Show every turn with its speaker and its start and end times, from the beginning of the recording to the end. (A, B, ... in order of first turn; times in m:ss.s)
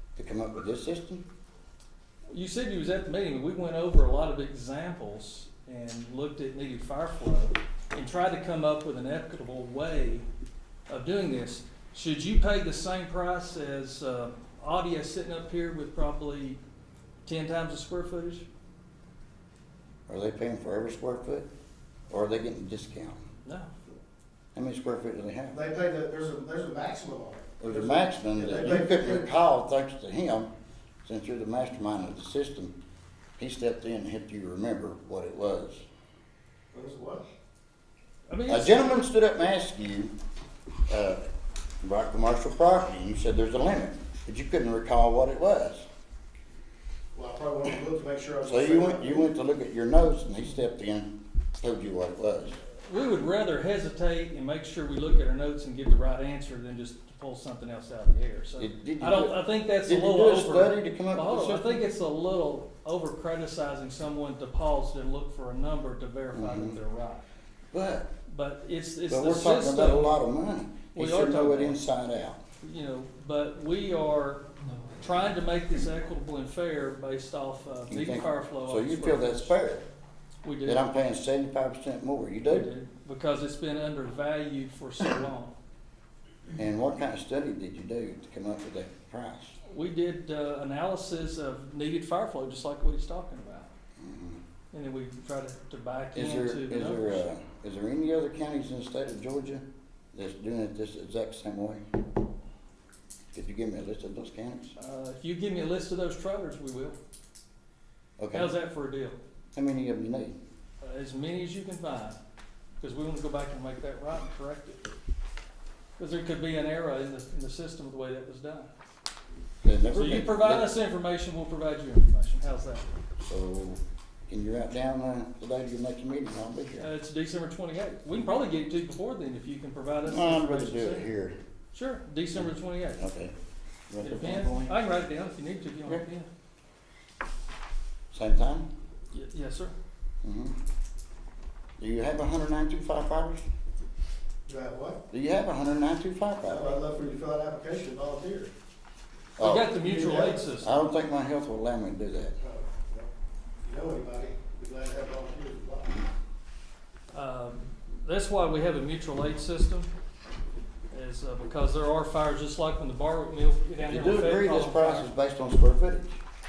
0:00.2-0:01.2 A
0:02.3-0:10.3 B
0:10.9-0:16.6 B
0:17.2-0:18.4 B
0:20.1-0:21.5 A
0:22.1-0:23.2 A
0:23.4-0:23.7 B
0:24.6-0:25.6 A
0:25.5-0:29.3 C
0:27.6-0:30.5 A
0:31.0-0:32.8 A
0:33.4-0:35.8 A
0:36.7-0:37.2 C
0:38.3-0:39.0 B
0:38.5-0:40.1 A
0:40.9-0:41.2 A
0:41.8-0:45.9 A
0:47.2-0:49.3 C
0:48.5-0:52.6 A
0:52.8-1:07.2 B
0:58.6-1:01.8 A
1:06.3-1:06.8 A
1:07.7-1:08.1 A
1:08.3-1:10.2 B
1:09.1-1:12.4 A
1:10.9-1:11.8 B
1:12.6-1:19.5 B
1:17.9-1:19.8 A
1:20.4-1:20.9 B
1:20.6-1:22.7 A
1:22.4-1:25.5 B
1:26.5-1:29.6 A
1:29.7-1:33.7 B
1:34.0-1:34.4 A
1:34.7-1:37.2 B
1:36.1-1:41.8 A
1:43.3-1:44.8 A
1:44.8-1:47.0 B
1:48.2-1:48.5 A
1:48.3-1:49.2 B
1:49.6-1:50.4 A
1:50.8-1:52.2 B
1:52.8-1:54.9 B
1:56.0-1:58.7 B
1:59.6-2:00.7 A
1:59.9-2:02.9 B
2:03.3-2:06.9 A
2:06.8-2:11.1 B
2:10.0-2:11.4 A
2:11.7-2:13.0 B
2:12.4-2:13.3 A
2:13.9-2:14.8 A
2:14.0-2:16.3 B
2:18.1-2:18.7 A
2:19.1-2:19.8 B
2:20.2-2:20.6 A
2:21.8-2:23.4 A
2:24.5-2:25.0 C
2:25.1-2:26.8 A
2:26.4-2:28.5 C
2:29.4-2:29.8 A
2:29.4-2:30.8 B
2:29.8-2:30.5 C
2:30.6-2:32.4 A
2:32.4-2:33.1 C
2:33.6-2:36.0 C
2:37.1-2:39.9 B
2:40.9-2:45.1 B
2:43.8-2:46.2 A